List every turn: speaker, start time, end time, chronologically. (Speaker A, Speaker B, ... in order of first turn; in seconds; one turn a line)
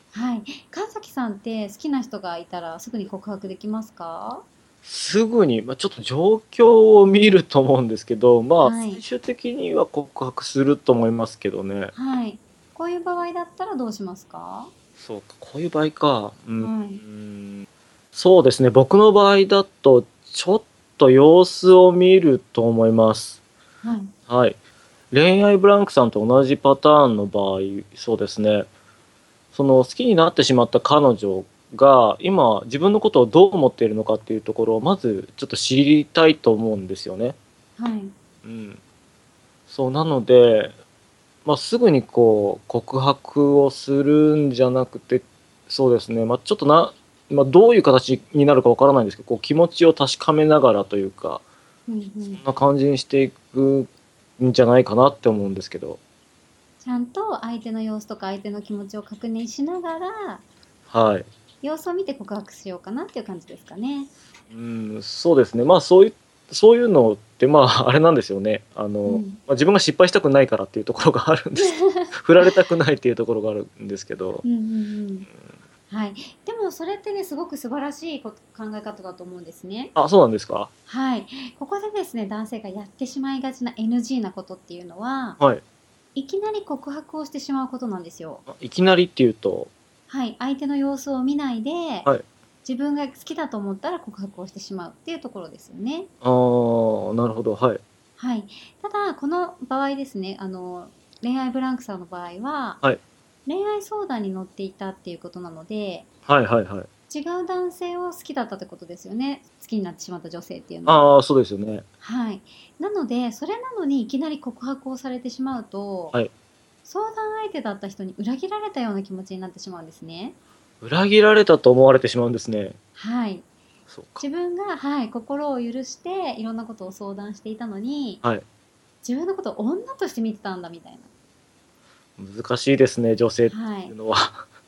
Speaker A: 0.1-4.5
Speaker B: 4.8-11.9
Speaker A: 8.6-9.0
Speaker A: 11.9-14.7
Speaker B: 15.0-23.4
Speaker A: 16.6-17.0
Speaker A: 23.8-24.1
Speaker B: 24.3-24.6
Speaker B: 25.1-28.7
Speaker B: 29.5-37.4
Speaker A: 37.8-38.1
Speaker B: 38.4-38.8
Speaker B: 39.7-40.8
Speaker B: 41.5-51.4
Speaker A: 51.9-52.4
Speaker B: 52.4-56.0
Speaker A: 56.8-60.4
Speaker B: 60.9-61.3
Speaker A: 61.6-64.1
Speaker B: 64.5-74.4
Speaker A: 69.1-69.4
Speaker A: 71.6-72.1
Speaker A: 74.4-75.3
Speaker A: 75.9-79.9
Speaker B: 80.0-80.7
Speaker A: 80.9-85.4
Speaker A: 86.2-88.4
Speaker B: 88.5-89.7
Speaker A: 90.1-92.1
Speaker A: 92.6-96.1
Speaker B: 96.2-97.8
Speaker A: 98.2-102.8
Speaker A: 103.5-106.1
Speaker B: 106.3-106.9
Speaker A: 107.1-111.0
Speaker B: 110.9-111.9
Speaker A: 112.0-116.2
Speaker A: 116.8-120.4
Speaker B: 120.8-122.8
Speaker A: 123.0-123.5
Speaker B: 123.9-124.2
Speaker A: 124.2-128.2
Speaker A: 129.0-131.1
Speaker B: 132.2-134.4
Speaker A: 133.5-133.9